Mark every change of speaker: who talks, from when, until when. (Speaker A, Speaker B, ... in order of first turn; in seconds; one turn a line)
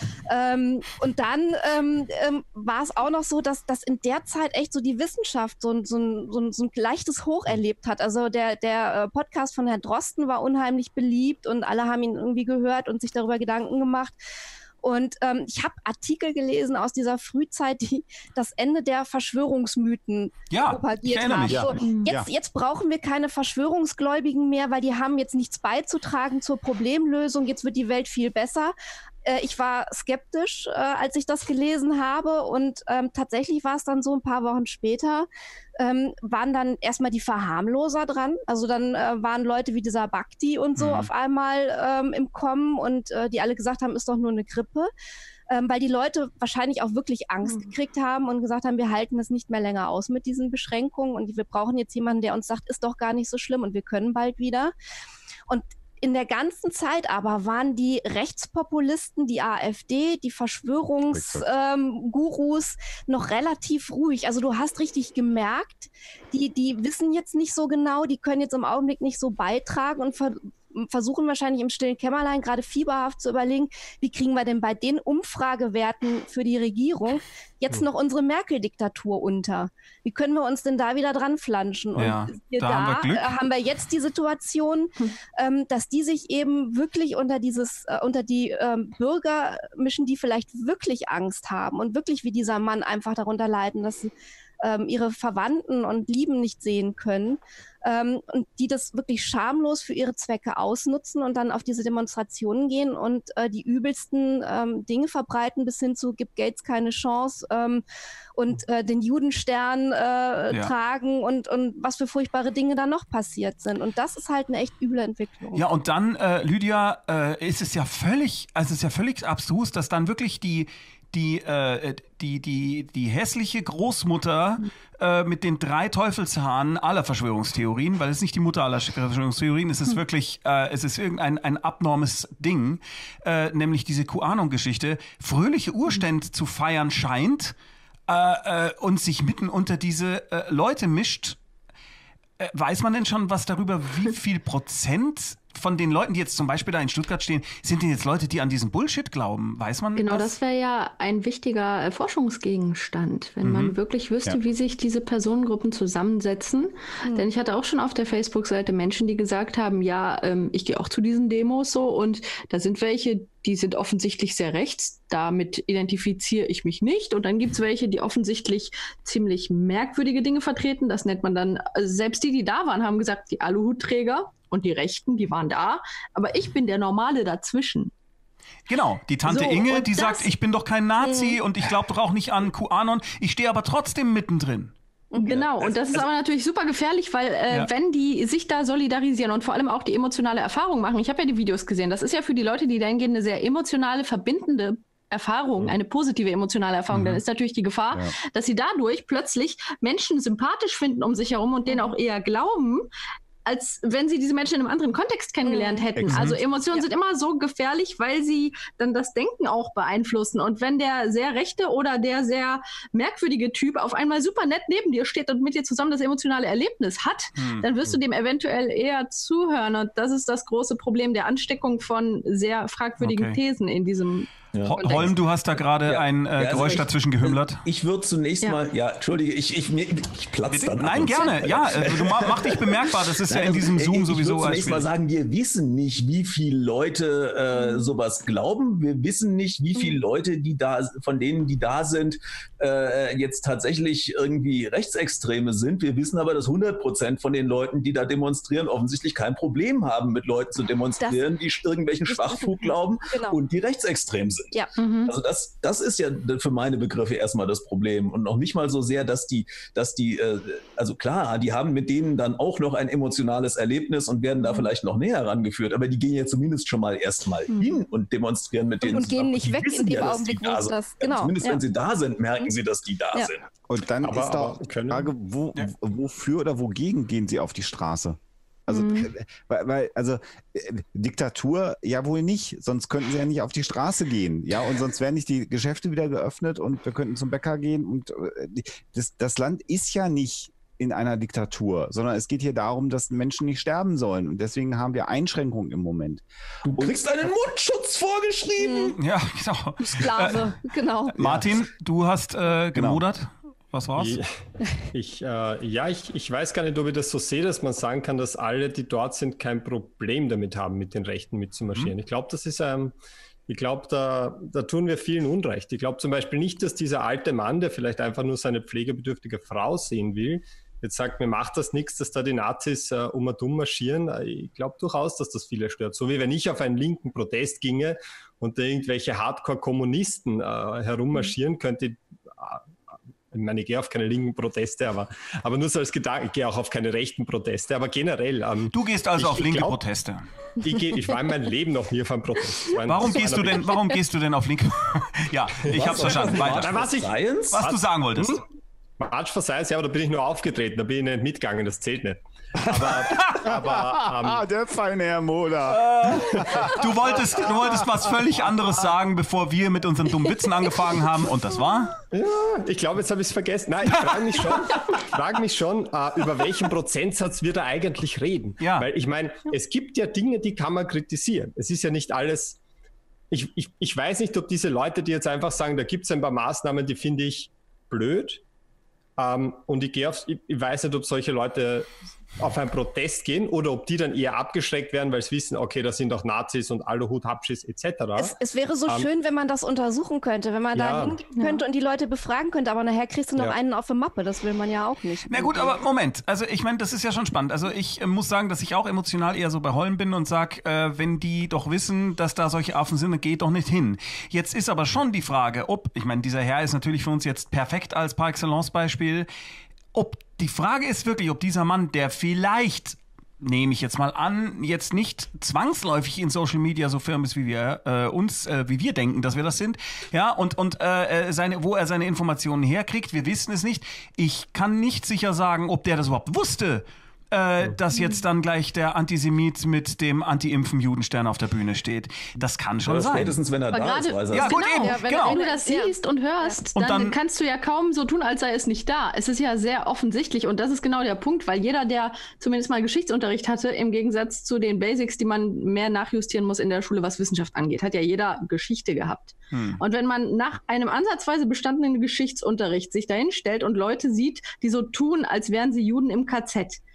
Speaker A: 0.3-14.2
Speaker A: 14.8-44.9
Speaker B: 20.5-21.7
Speaker C: 21.5-22.3
Speaker D: 21.8-22.1
Speaker B: 40.8-41.1
Speaker A: 45.5-54.7
Speaker A: 55.5-94.1
Speaker C: 61.1-61.5
Speaker B: 81.9-83.3
Speaker A: 94.6-107.8
Speaker A: 108.3-115.6
Speaker B: 115.5-137.5
Speaker B: 138.1-141.4
Speaker B: 142.4-150.3
Speaker D: 149.9-177.9
Speaker B: 153.4-153.7
Speaker B: 178.7-184.7
Speaker D: 179.3-180.3
Speaker A: 181.1-181.4
Speaker D: 185.2-202.9
Speaker E: 185.3-186.1
Speaker B: 196.9-197.2
Speaker D: 203.4-225.2
Speaker A: 205.4-205.9
Speaker B: 217.3-217.7
Speaker B: 223.0-223.4
Speaker E: 224.5-225.2
Speaker B: 224.7-227.6
Speaker E: 225.8-273.4
Speaker B: 230.5-234.9
Speaker A: 239.8-240.0
Speaker A: 252.1-253.4
Speaker D: 254.8-255.2
Speaker A: 264.4-264.7
Speaker A: 268.8-271.6
Speaker C: 273.7-297.0
Speaker F: 274.0-275.1
Speaker D: 278.7-279.1
Speaker E: 296.6-299.0
Speaker A: 298.6-299.0
Speaker B: 298.9-300.6
Speaker A: 299.8-301.2
Speaker B: 301.1-304.2
Speaker C: 301.2-301.5
Speaker C: 302.7-303.0
Speaker F: 303.9-304.3
Speaker F: 304.9-312.9
Speaker F: 313.5-332.6
Speaker F: 333.3-339.8
Speaker B: 338.7-340.2
Speaker F: 340.6-343.7
Speaker B: 342.8-346.9
Speaker F: 345.6-348.4
Speaker E: 345.7-347.6
Speaker B: 347.5-348.4
Speaker F: 349.0-354.4
Speaker B: 352.8-353.5
Speaker C: 353.5-356.8
Speaker B: 355.7-361.9
Speaker F: 356.1-356.7
Speaker F: 362.1-372.6
Speaker B: 363.9-364.1
Speaker B: 368.6-368.9
Speaker F: 373.3-378.4
Speaker F: 379.2-389.1
Speaker A: 388.1-395.8
Speaker F: 390.7-391.3
Speaker D: 391.3-391.6
Speaker B: 395.2-409.3
Speaker B: 409.9-433.4
Speaker E: 432.9-434.6
Speaker D: 433.7-456.8
Speaker B: 434.3-435.4
Speaker A: 434.6-436.6
Speaker B: 436.8-437.1
Speaker B: 449.5-449.8